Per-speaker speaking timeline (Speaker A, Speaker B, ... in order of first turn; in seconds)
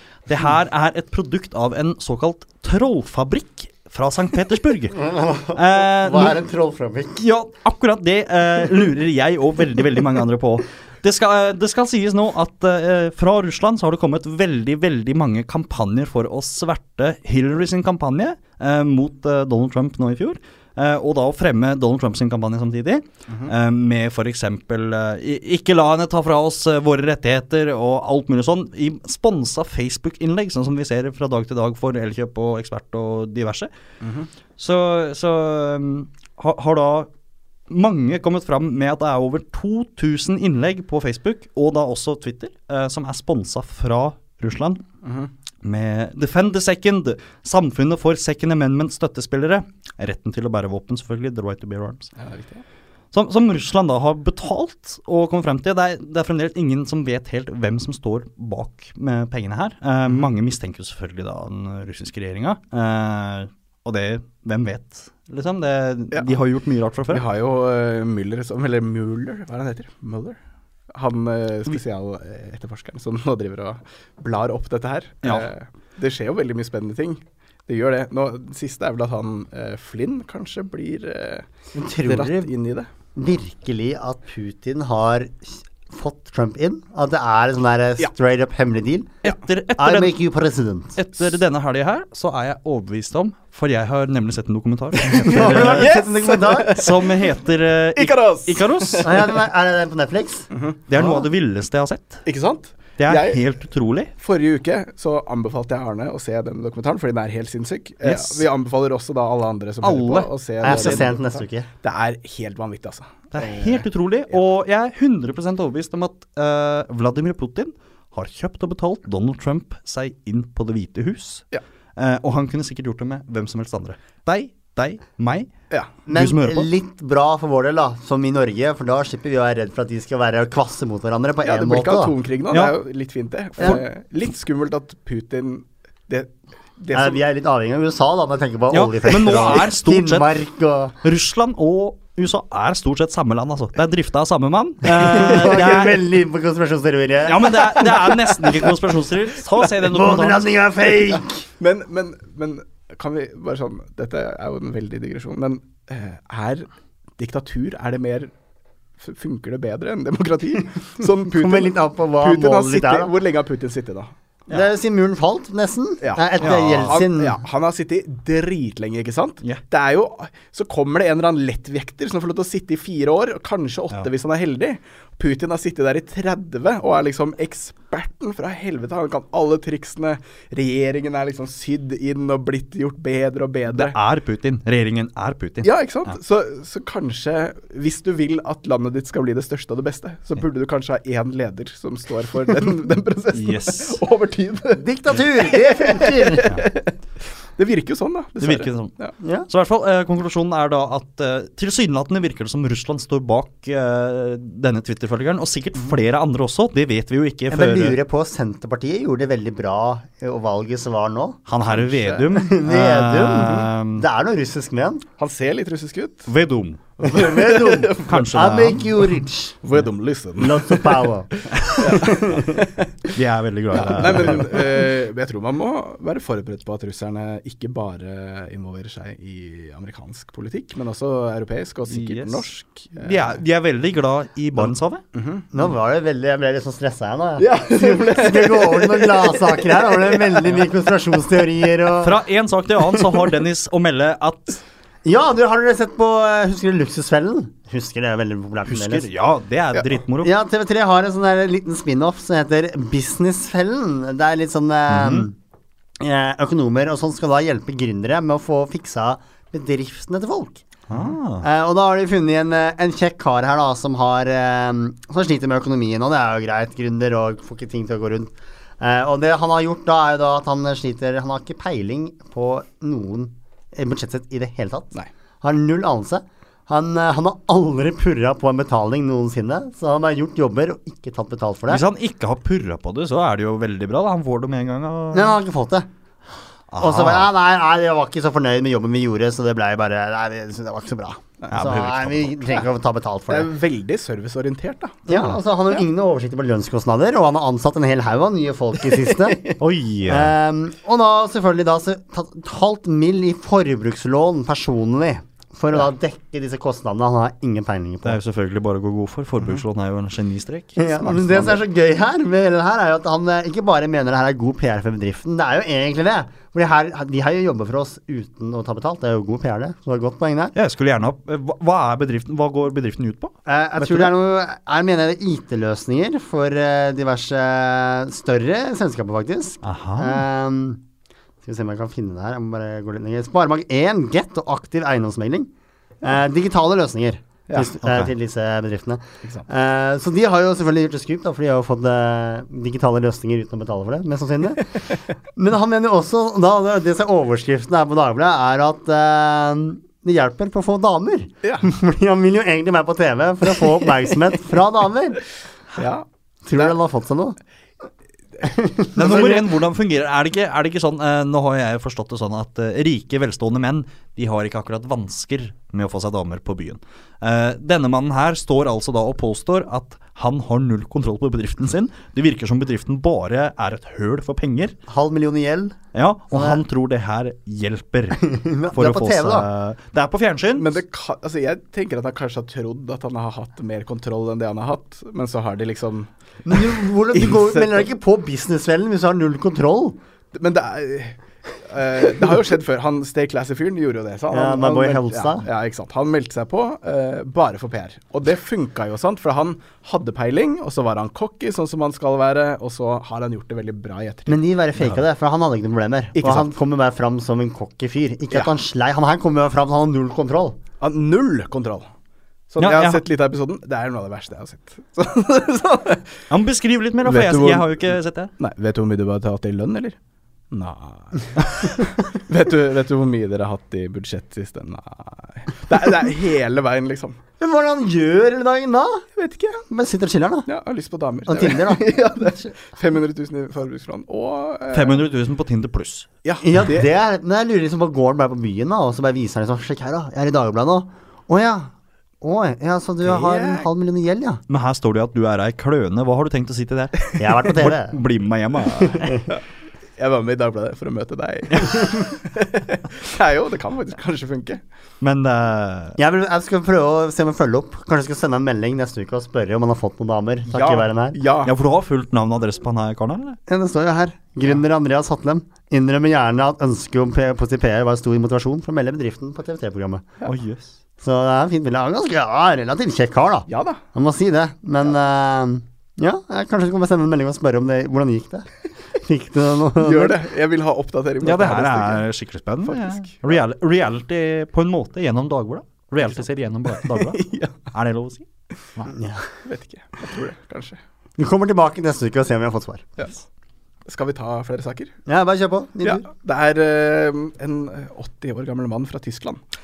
Speaker A: 0.3-6.4, 7.2-33.7, 34.6-37.1, 37.7-44.8, 45.6-52.1, 53.1-67.2, 75.2-75.5, 89.2-90.2, 91.0-96.0, 96.7-99.3, 100.9-102.2, 103.0-104.1, 108.0-108.5, 109.8-111.1, 113.3-125.5, 126.1-126.7, 132.5-132.8, 138.7-140.3, 141.0-146.1, 147.2-150.5, 166.4-167.0, 183.7-186.2, 193.3-194.0, 198.4-198.9, 199.5-208.0, 211.5-214.1, 216.3-216.8, 218.1-218.9, 223.1-224.7, 231.9-235.0, 242.0-244.6, 248.7-250.3, 254.9-255.3, 260.9-261.4, 281.7-285.4, 286.7-287.3, 291.5-292.6, 299.6-300.3, 308.0-311.6, 320.5-324.1, 329.6-330.2, 337.8-338.1, 358.9-374.7, 375.9-380.8, 412.6-413.0, 416.3-418.3, 434.7-436.1, 444.5-449.2, 455.0-456.0, 461.4-463.4, 470.2-470.7, 481.2-488.9
Speaker B: 5.0-7.2, 81.7-82.5, 83.1-89.2, 89.8-91.0, 95.2-96.8, 99.0-100.5, 110.6-111.7, 126.1-132.1, 136.9-140.9, 144.8-148.1, 149.8-151.4, 161.3-163.1, 164.5-167.4, 194.8-196.5, 199.2-199.5, 207.5-211.4, 212.3-215.0, 217.0-219.6, 220.4-222.6, 235.5-242.2, 245.0-249.1, 250.2-255.3, 256.0-281.8, 285.1-285.9, 286.8-293.5, 295.1-299.5, 300.1-308.2, 310.8-320.5, 323.4-330.8, 331.4-335.5, 336.0-344.8, 345.3-355.2, 356.4-357.4, 358.4-359.5, 374.9-375.8, 376.3-376.6, 378.2-379.5, 386.5-390.0, 394.3-395.4, 404.3-410.6, 427.4-429.0, 429.7-430.5, 431.2-432.5, 436.4-444.4, 447.2-448.0, 448.8-449.2, 456.0-461.2, 463.5-470.1, 471.0-480.2, 488.9-489.3, 491.2-492.9, 495.1-496.1
Speaker C: 34.0-34.3, 45.0-45.3, 52.2-52.6, 67.1-70.4, 70.9-82.9, 95.0-97.2, 98.0-99.3, 100.5-101.2, 102.2-103.4, 104.2-114.4, 131.4-137.2, 151.6-158.3, 159.0-164.1, 166.0-183.9, 185.6-197.0, 197.6-199.1, 211.7-212.3, 215.2-216.3, 217.0-218.2, 219.6-223.1, 223.7-233.4, 235.1-235.5, 237.4-240.6, 293.3-295.0, 299.1-299.6, 339.2-339.5, 351.4-351.7, 355.8-356.1, 380.6-387.8, 390.3-404.4, 406.1-406.5, 410.8-411.9, 412.5-416.1, 417.0-420.0, 420.5-427.2, 429.1-429.6, 430.4-435.0, 436.2-436.9, 443.0-443.7, 450.0-454.6, 460.5-461.5, 473.5-473.8, 479.8-482.0, 482.6-483.3, 486.7-487.6, 489.4-490.8, 493.8-494.9, 495.8-499.4